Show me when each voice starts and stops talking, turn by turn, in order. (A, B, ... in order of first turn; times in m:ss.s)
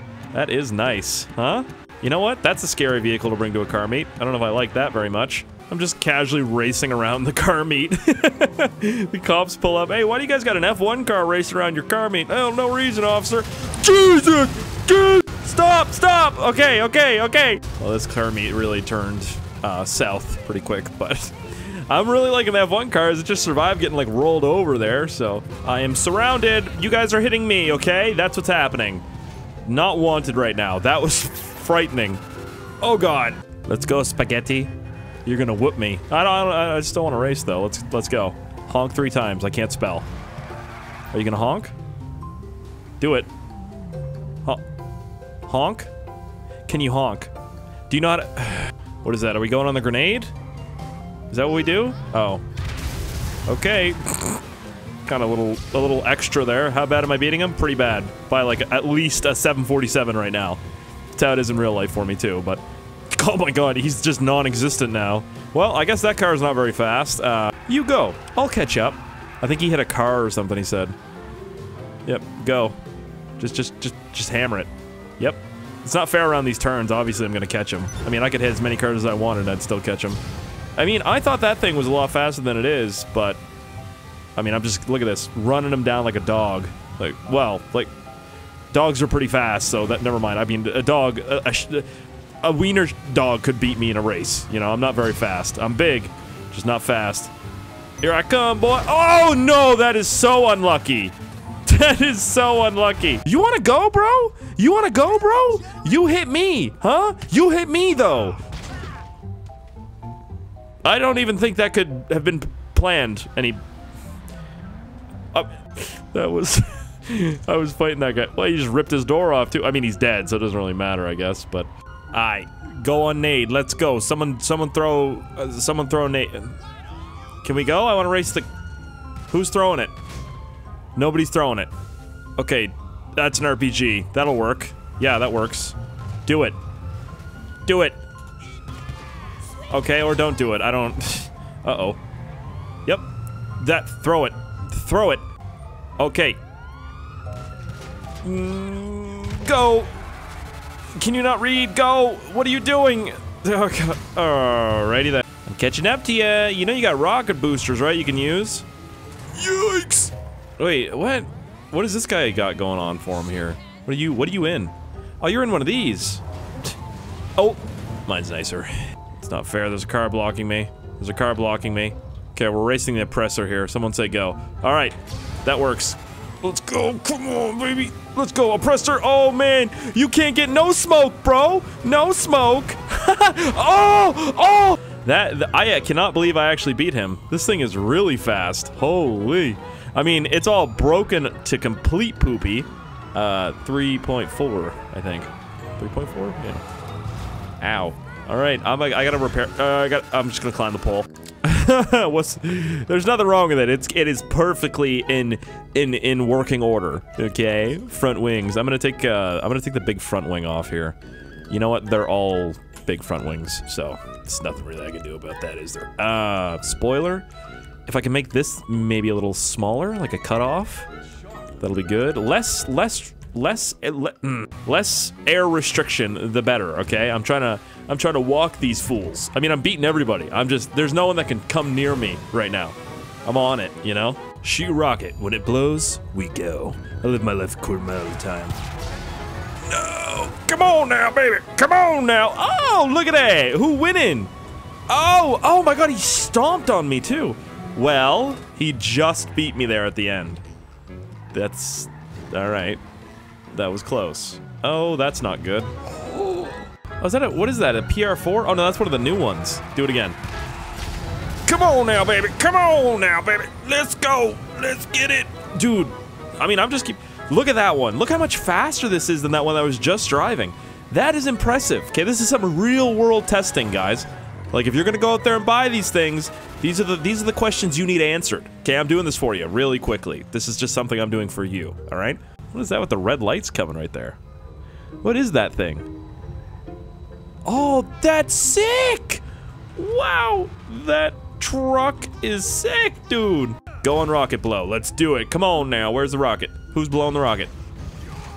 0:00.3-0:29.0 A
0:29.6-0:32.2 A
0:32.8-0:34.7 A
0:35.2-0:40.1 A
0:41.1-0:41.7 A
0:43.0-0:43.3 A
0:45.5-0:45.9 A
0:46.6-0:47.3 A
0:47.9-0:50.3 A
0:51.3-0:52.4 A
0:53.5-0:54.4 A
0:55.0-1:00.6 A
1:01.1-1:10.9 A
1:12.0-1:12.8 A
1:13.4-1:20.2 A
1:20.8-1:23.4 A
1:24.4-1:27.9 A
1:28.7-1:31.9 A
1:32.4-1:37.3 A
1:38.0-1:48.4 A
1:50.8-1:53.6 A
1:55.3-2:06.6 A
2:07.4-2:08.5 A
2:09.3-2:09.9 A
2:11.0-2:11.7 A
2:12.4-2:16.6 A
2:17.6-2:18.0 A
2:19.7-2:22.0 A
2:23.6-2:25.2 A
2:26.0-2:26.4 A
2:28.2-2:29.9 A
2:31.0-2:38.6 A
2:39.3-2:46.2 A
2:47.4-3:16.6 A
3:17.6-3:31.0 A
3:31.5-3:37.3 A
3:37.9-3:40.9 A
3:41.6-3:58.6 A
3:59.6-4:04.3 A
4:04.9-4:10.4 A
4:11.3-4:12.8 A
4:13.5-4:20.2 A
4:21.4-4:44.2 A
4:45.0-4:45.9 A
4:47.4-4:49.2 A
4:49.8-4:57.5 A